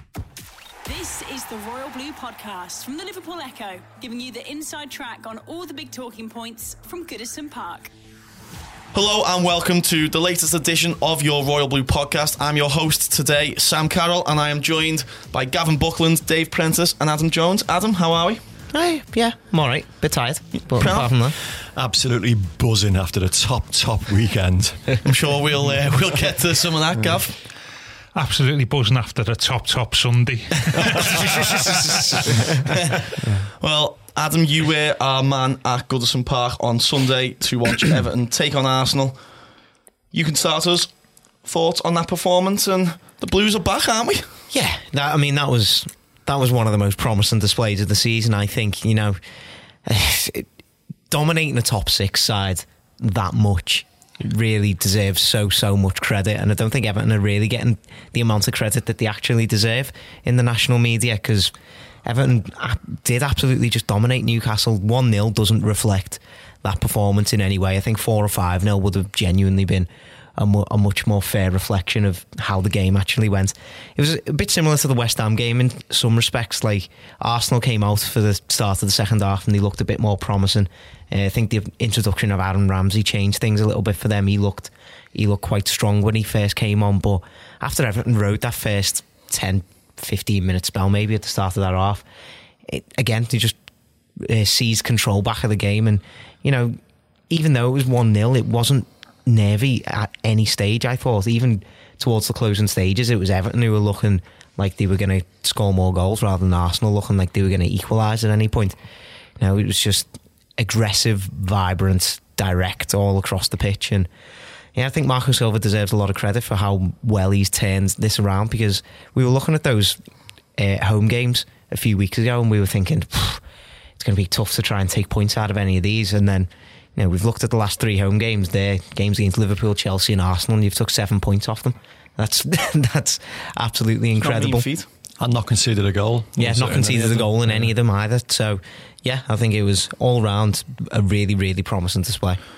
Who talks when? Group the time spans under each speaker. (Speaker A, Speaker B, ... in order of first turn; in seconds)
Speaker A: 0.8-7.9
Speaker B: 8.9-18.4, 20.7-21.1, 25.0-27.4, 30.9-39.2, 40.1-44.4, 134.2-134.9
Speaker C: 18.7-21.4, 44.5-49.2, 49.9-50.5, 51.1-61.5, 62.0-92.0, 92.7-93.6, 94.2-96.8, 97.3-108.8, 109.4-114.1, 114.7-120.0, 120.6-123.4, 124.0-134.7, 136.3-142.4
Speaker D: 20.9-25.0, 135.2-137.3
Speaker E: 28.1-32.2